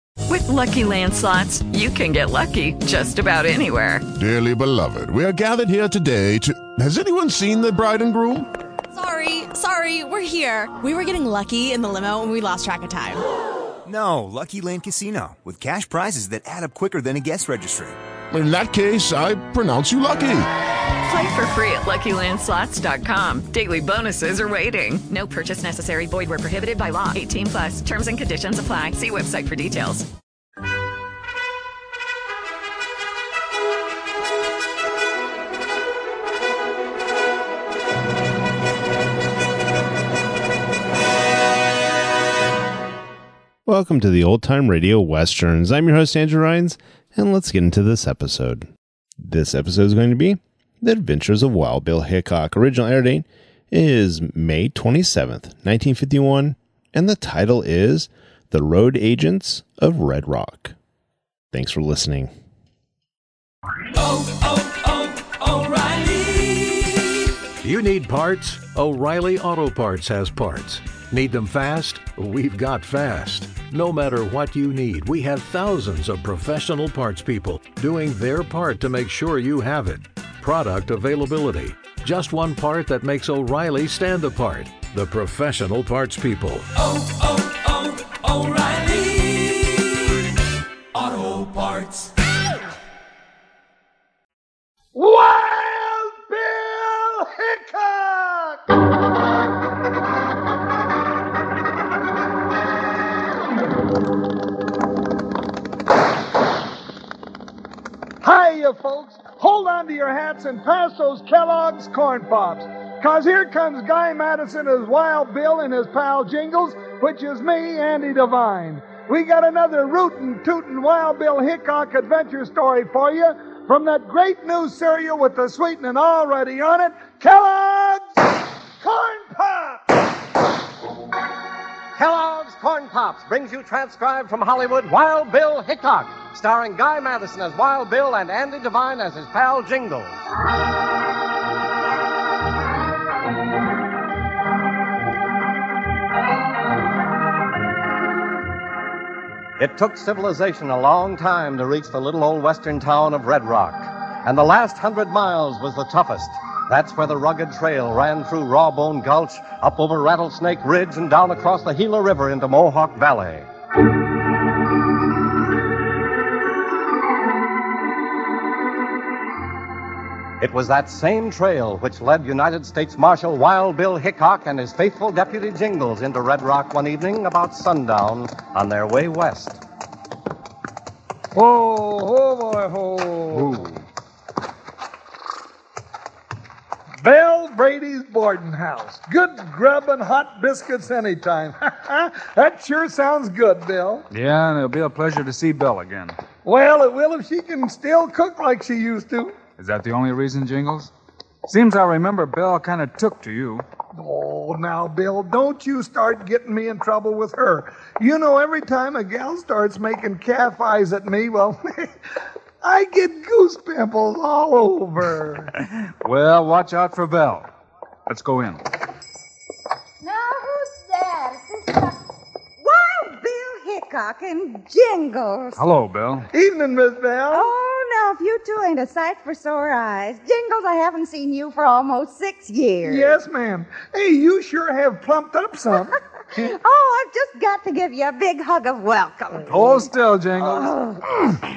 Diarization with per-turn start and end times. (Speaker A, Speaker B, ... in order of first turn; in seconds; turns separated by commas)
Speaker A: 0.3-4.0, Speaker B: 4.1-8.5, Speaker C: 8.9-13.2, Speaker D: 13.9-17.9, Speaker B: 18.3-20.5, Speaker A: 21.1-30.1, Speaker E: 43.7-48.6, Speaker E: 49.2-60.7, Speaker E: 61.5-62.3, Speaker F: 64.1-66.8, Speaker F: 67.6-89.7, Speaker F: 91.0-92.1, Speaker G: 94.9-98.6, Speaker G: 108.2-128.1, Speaker G: 128.8-129.8, Speaker H: 131.9-140.2, Speaker H: 149.6-163.5, Speaker H: 170.4-179.6, Speaker G: 181.3-183.7, Speaker I: 183.3-183.8, Speaker G: 187.0-194.1, Speaker I: 194.1-196.2, Speaker G: 196.4-199.3, Speaker I: 199.6-200.9, Speaker I: 201.5-203.6, Speaker G: 203.9-211.9, Speaker G: 212.6-215.5, Speaker I: 215.7-217.5, Speaker I: 218.1-218.6, Speaker J: 220.0-222.0, Speaker J: 222.6-225.6, Speaker I: 225.6-226.3, Speaker G: 226.3-227.5, Speaker J: 227.3-233.1, Speaker G: 232.8-236.5, Speaker J: 236.3-239.8, Speaker I: 239.5-240.8, Speaker J: 240.4-241.3